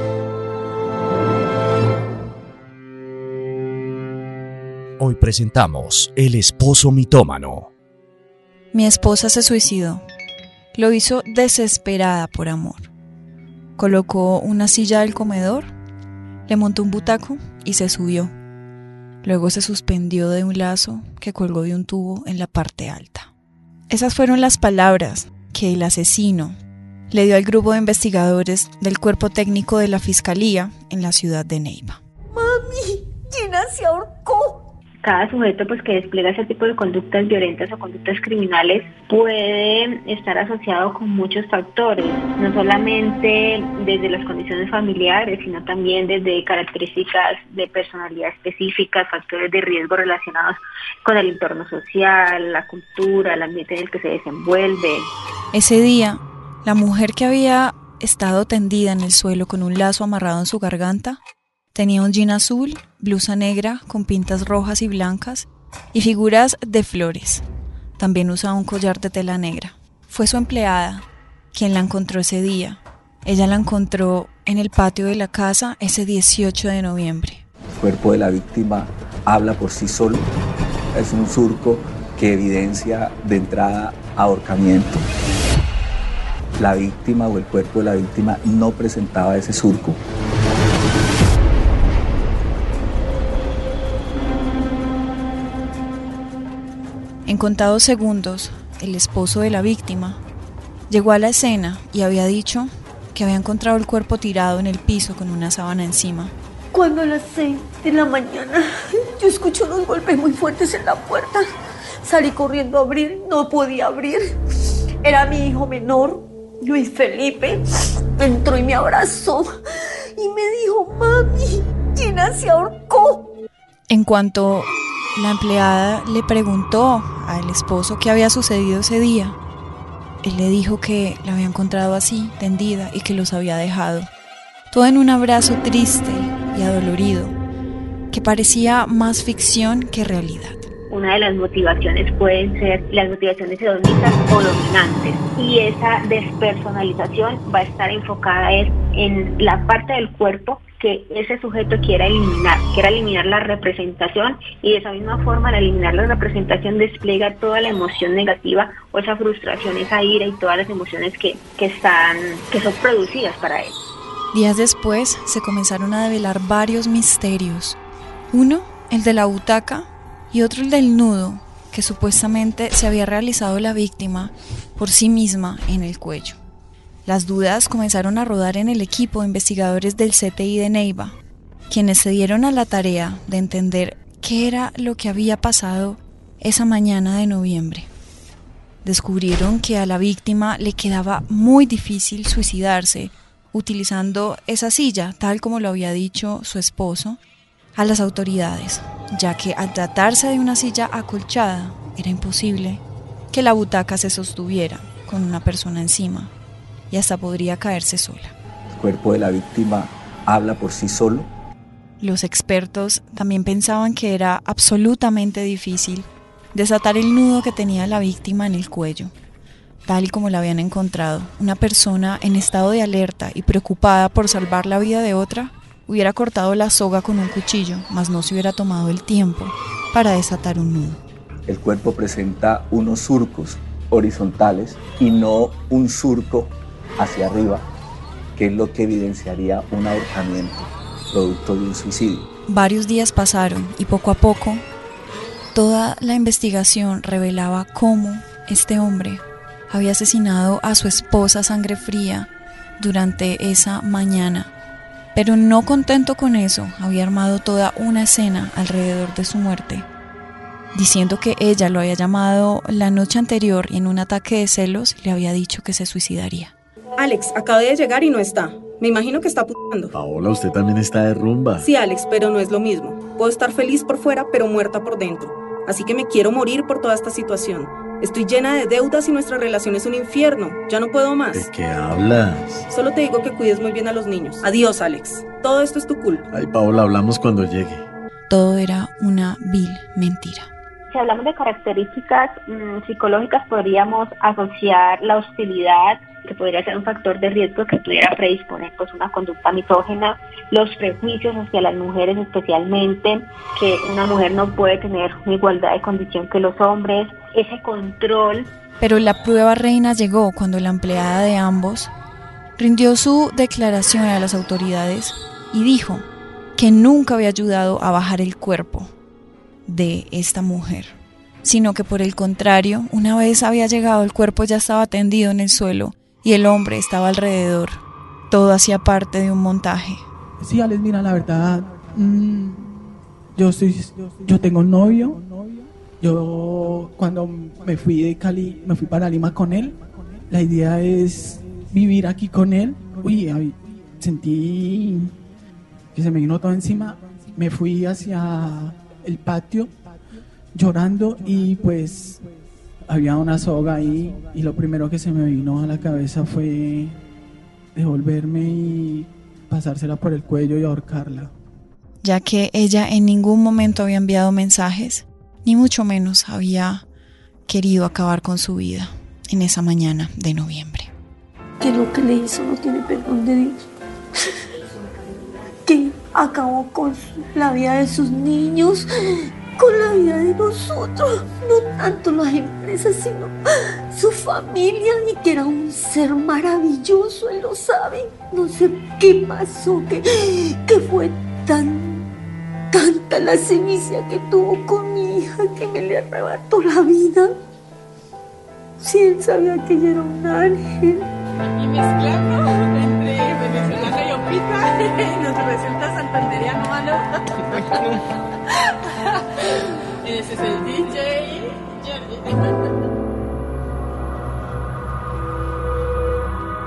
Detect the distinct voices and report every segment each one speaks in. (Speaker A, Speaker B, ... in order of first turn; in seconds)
Speaker A: 5.0-7.7
Speaker B: 8.7-10.0, 10.8-12.9, 13.8-15.7, 16.5-18.3, 19.2-23.3, 23.9-26.6, 27.1-32.0, 55.5-61.2, 61.7-67.4, 68.0-77.4, 97.3-100.2, 100.9-106.3, 123.9-129.4, 130.2-134.1, 134.7-137.4, 138.1-140.7, 164.3-167.8, 168.3-176.4, 177.1-181.2, 181.7-187.9, 188.8-197.2, 197.8-206.3, 206.9-208.3, 212.0-219.1, 219.9-231.0, 242.5-244.6, 245.5-254.5, 255.2-259.9, 260.7-266.5, 288.3-290.5, 308.8-311.9, 312.6-318.9, 319.7-330.0, 362.0-366.8, 367.5-370.9
Speaker C: 32.3-34.7, 106.7-111.4, 112.0-114.3, 115.0-117.6, 118.2-119.5, 120.2-123.3, 371.6-373.7, 375.6-378.9, 379.6-383.4, 383.9-392.1, 392.7-397.3, 398.8-401.1
Speaker D: 35.0-55.1, 140.9-163.8, 290.9-308.5
Speaker E: 77.8-80.3, 80.9-85.1, 86.6-90.0, 208.7-211.3, 231.5-237.7, 238.4-242.3
Speaker F: 267.0-269.9, 271.6-281.5, 282.7-286.2
Speaker G: 269.9-271.7, 281.3-282.7, 286.3-287.9
Speaker H: 330.4-332.7, 333.4-339.8, 340.3-345.1, 345.9-349.7, 350.5-352.2, 352.9-357.0, 357.8-361.3
Speaker I: 401.5-407.8, 410.0-412.5